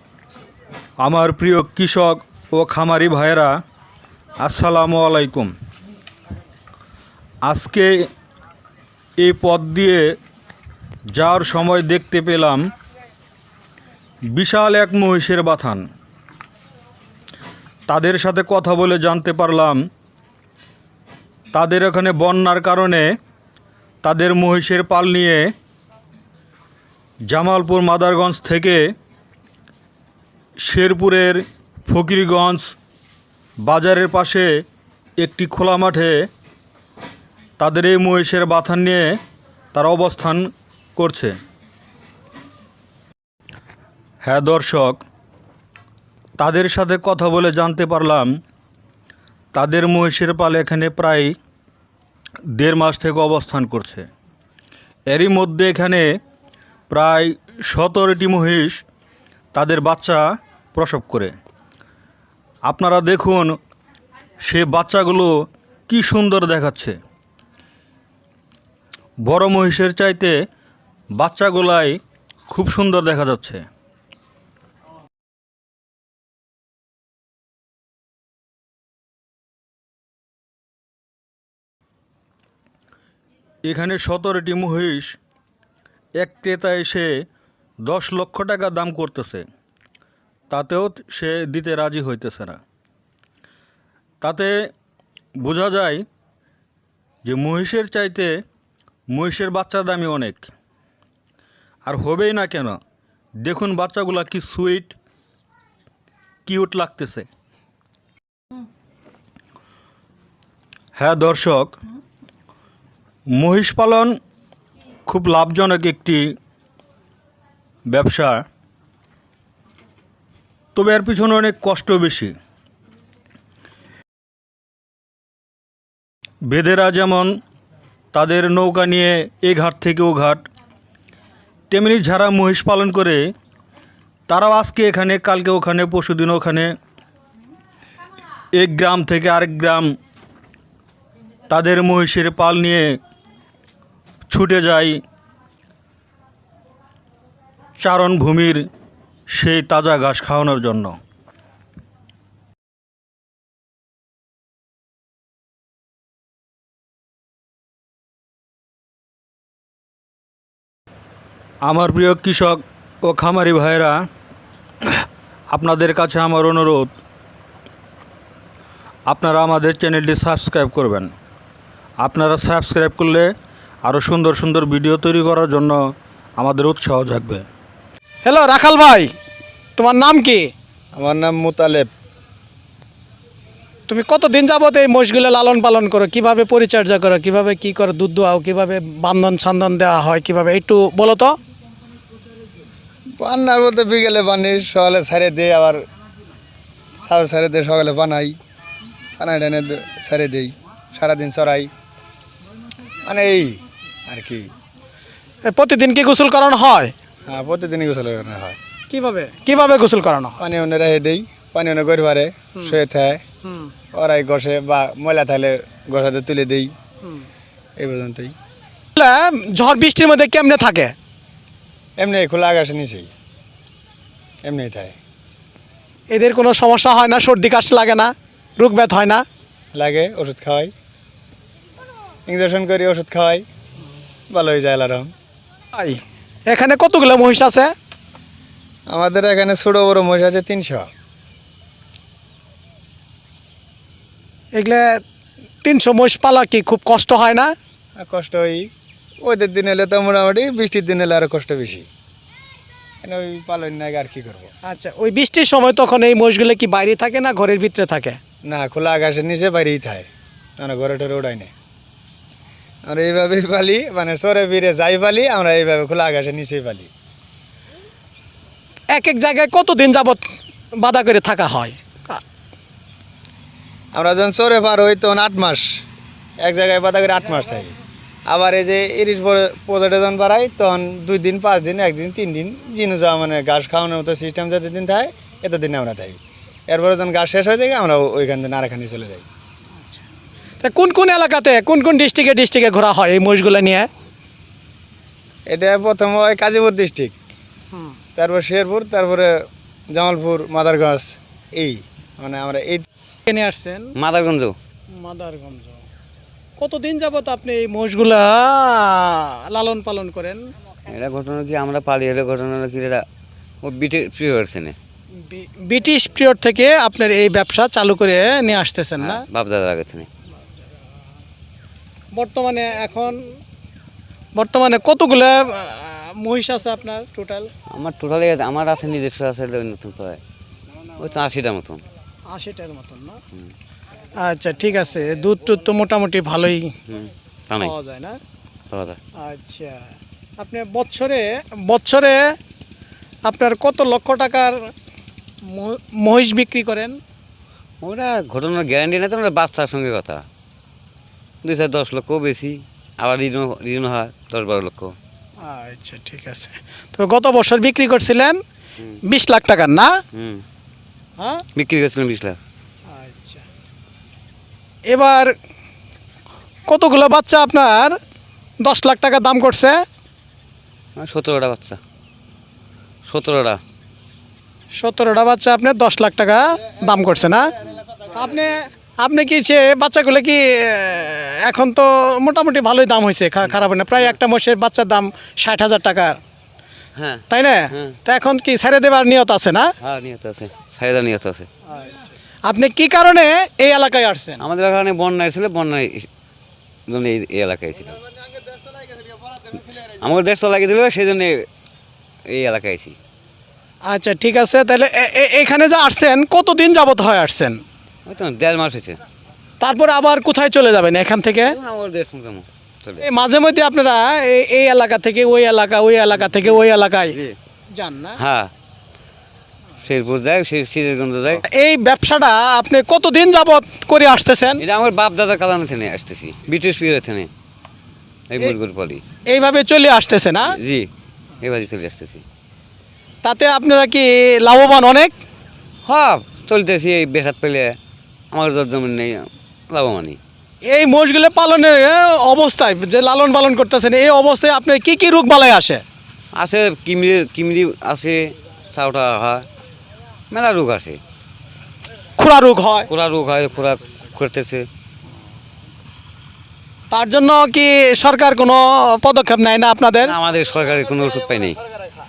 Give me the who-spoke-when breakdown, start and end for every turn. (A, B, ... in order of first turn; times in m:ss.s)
0:01.0-0:03.5 A
0:04.4-0:05.5 A
0:07.5-0:07.9 A
0:09.2-0:10.0 A
0:11.1-0:12.6 A
0:14.3-0:15.8 A
0:17.9-0:19.8 A
0:21.5-0:23.1 A
0:24.0-0:25.5 A
0:27.3-0:28.8 A
0:30.6-0:32.7 A
0:33.6-0:34.5 A
0:35.2-0:36.2 A
0:37.6-0:39.1 A
0:39.7-0:41.3 A
0:44.2-0:45.0 A
0:46.4-0:48.3 A
0:49.5-0:51.3 A
0:52.6-0:54.1 A
0:55.1-0:56.0 A
0:56.9-0:58.8 A
0:59.5-1:00.2 A
1:00.7-1:01.3 A
1:02.6-1:03.6 A
1:04.4-1:05.3 A
1:05.9-1:07.0 A
1:09.2-1:10.4 A
1:11.2-1:12.0 A
1:12.5-1:13.6 A
1:23.7-1:25.2 A
1:26.2-1:27.1 A
1:27.8-1:29.4 A
1:30.5-1:32.6 A
1:34.2-1:34.7 A
1:35.4-1:36.0 A
1:37.2-1:38.3 A
1:39.1-1:40.5 A
1:41.9-1:42.8 A
1:43.4-1:45.0 A
1:46.4-1:47.3 A
1:51.0-1:51.8 A
1:53.4-1:54.1 A
1:55.0-1:56.2 A
1:57.9-1:58.4 A
2:00.7-2:02.3 A
2:06.5-2:07.3 A
2:08.1-2:10.4 A
2:11.7-2:13.2 A
2:14.3-2:16.7 A
2:18.6-2:19.9 A
2:21.5-2:22.8 A
2:24.3-2:25.0 A
2:27.8-2:28.6 A
2:29.3-2:31.0 A
2:41.6-2:44.0 A
2:44.9-2:46.9 A
2:49.1-2:51.1 A
2:52.0-2:53.3 A
2:53.8-2:55.8 A
2:56.4-2:57.4 A
2:58.2-2:59.1 B
2:59.8-3:00.5 B
3:00.9-3:01.9 C
3:03.9-3:11.4 B
3:13.2-3:15.8 C
3:17.0-3:18.4 C
3:19.2-3:21.7 C
3:23.0-3:24.5 C
3:25.5-3:26.9 B
3:27.3-3:28.6 C
3:28.9-3:30.4 B
3:30.4-3:33.2 C
3:33.9-3:36.7 C
3:37.8-3:38.3 C
3:38.9-3:40.9 B
3:42.0-3:43.1 C
3:44.4-3:45.0 C
3:46.1-3:49.2 B
3:49.7-3:50.7 C
3:52.3-3:53.4 C
3:54.3-3:55.1 C
3:55.7-3:57.7 B
3:58.9-4:00.9 C
4:04.5-4:05.0 B
4:05.6-4:07.5 B
4:08.0-4:08.7 C
4:09.2-4:11.8 C
4:13.0-4:14.5 C
4:14.6-4:18.2 B
4:18.4-4:20.1 C
4:20.6-4:21.5 C
4:22.8-4:26.9 C
4:28.9-4:32.2 B
4:33.9-4:35.8 C
4:36.4-4:37.7 C
4:38.3-4:49.2 C
4:50.6-4:53.9 B
4:55.5-4:57.1 C
4:58.2-5:02.8 C
5:03.2-5:03.9 B
5:04.0-5:04.5 D
5:04.9-5:05.8 B
5:06.6-5:10.4 B
5:10.9-5:13.0 D
5:13.6-5:14.8 D
5:15.2-5:19.2 B
5:19.0-5:20.1 D
5:22.1-5:23.3 B
5:24.3-5:27.5 B
5:27.7-5:30.2 D
5:31.0-5:31.8 D
5:32.3-5:33.2 B
5:34.2-5:36.7 B
5:36.9-5:37.7 D
5:37.6-5:38.2 B
5:38.7-5:39.0 D
5:39.2-5:39.8 B
5:40.4-5:42.3 B
5:43.2-5:44.7 B
5:45.4-5:47.0 B
5:47.8-5:50.2 D
5:51.4-5:55.0 D
5:55.4-5:58.4 B
5:59.0-5:59.9 B
6:00.1-6:00.4 D
6:01.2-6:01.4 B
6:01.6-6:02.4 D
6:02.9-6:03.4 B
6:04.9-6:05.3 B
6:06.7-6:08.0 B
6:08.6-6:09.8 B
6:11.0-6:11.8 D
6:13.0-6:13.6 D
6:14.7-6:26.2 B
6:23.4-6:24.2 D
6:27.0-6:28.0 D
6:27.3-6:29.7 B
6:29.8-6:31.5 D
6:31.8-6:34.4 B
6:34.4-6:36.1 D
6:36.9-6:38.0 D
6:39.7-6:41.4 D
6:42.3-6:43.0 D
6:43.8-6:47.6 B
6:48.0-6:49.0 D
6:49.6-6:51.6 B
6:51.4-6:53.1 D
6:53.0-6:57.2 B
6:56.1-6:56.6 D
6:57.7-6:58.2 B
6:58.2-6:58.5 D
6:59.8-7:01.4 D
7:01.4-7:04.6 B
7:04.6-7:07.3 D
7:08.3-7:09.0 D
7:09.3-7:10.6 B
7:10.4-7:10.9 D
7:11.4-7:12.2 D
7:13.2-7:15.1 B
7:15.8-7:17.8 D
7:18.3-7:20.2 D
7:20.6-7:25.8 B
7:26.3-7:29.4 D
7:30.3-7:31.0 D
7:32.2-7:32.9 B
7:32.9-7:34.7 D
7:36.9-7:40.1 B
7:40.0-7:41.6 D